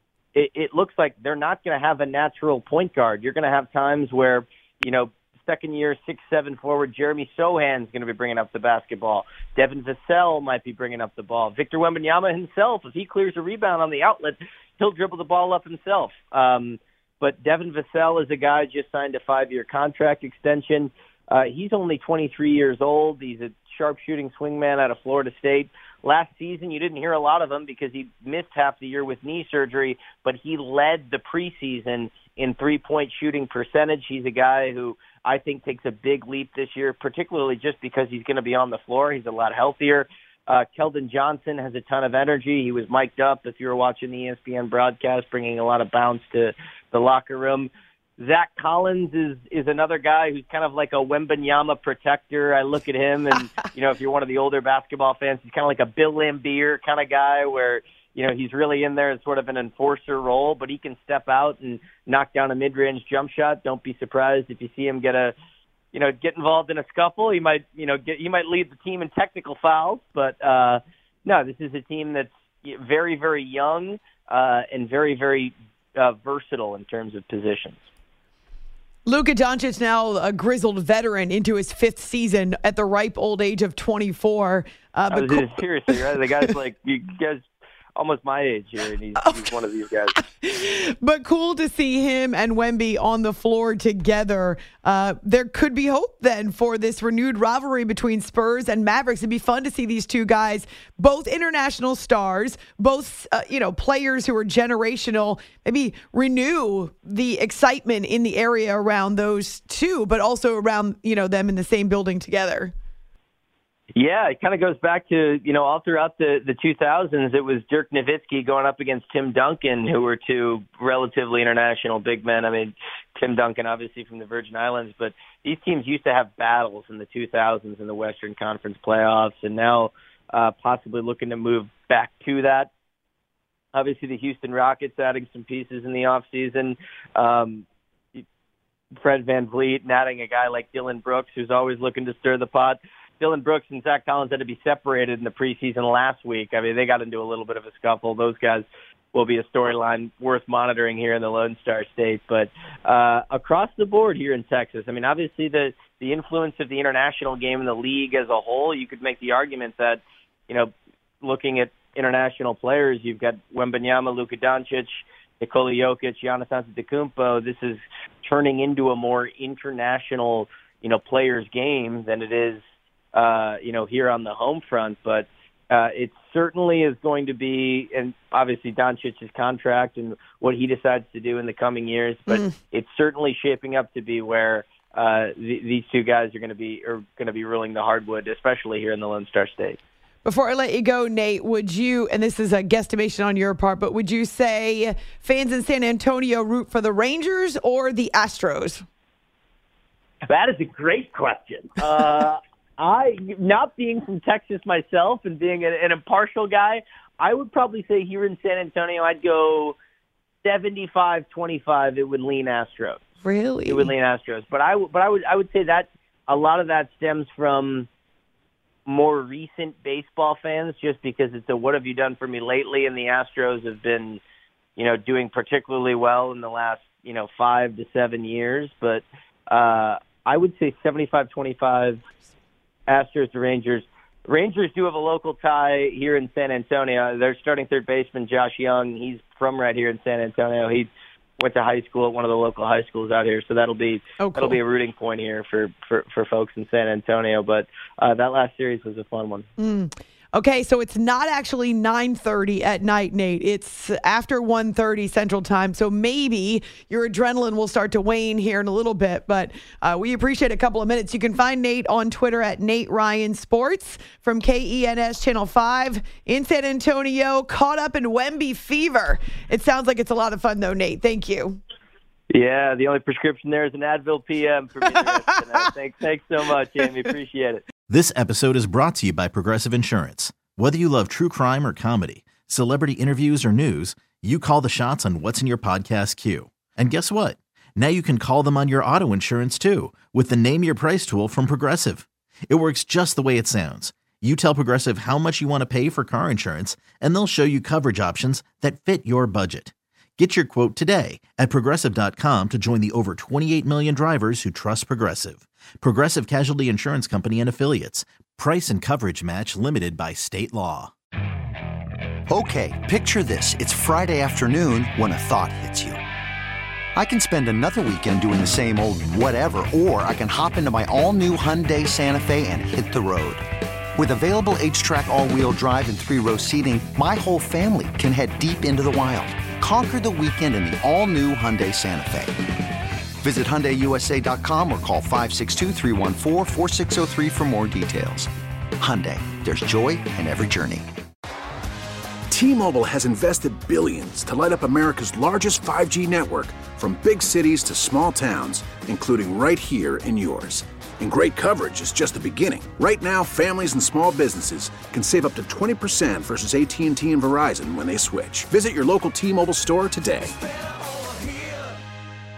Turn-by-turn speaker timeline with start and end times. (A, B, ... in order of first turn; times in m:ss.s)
0:00.3-1:05.3 A
1:05.9-1:17.8 A
1:19.0-1:25.5 B
1:25.1-1:30.1 A
1:29.2-1:29.4 B
1:30.2-1:52.7 B
1:53.9-2:12.7 A
2:13.7-2:17.6 A
2:19.0-2:40.7 A
2:41.2-2:52.6 A
2:53.1-3:09.8 A
3:10.2-3:18.8 B
3:20.2-3:29.8 A
3:30.4-3:33.0 A
3:33.2-3:33.9 B
3:33.6-3:37.9 A
3:38.8-3:44.2 A
3:44.8-3:52.0 A
3:52.9-4:09.4 A
4:04.2-4:04.6 B
4:09.6-4:31.6 B
4:32.3-4:37.6 A
4:37.9-5:10.9 C
5:12.3-5:16.0 D
5:16.9-5:23.4 D
5:23.9-5:32.4 D
5:33.2-5:40.9 D
5:42.3-6:00.3 E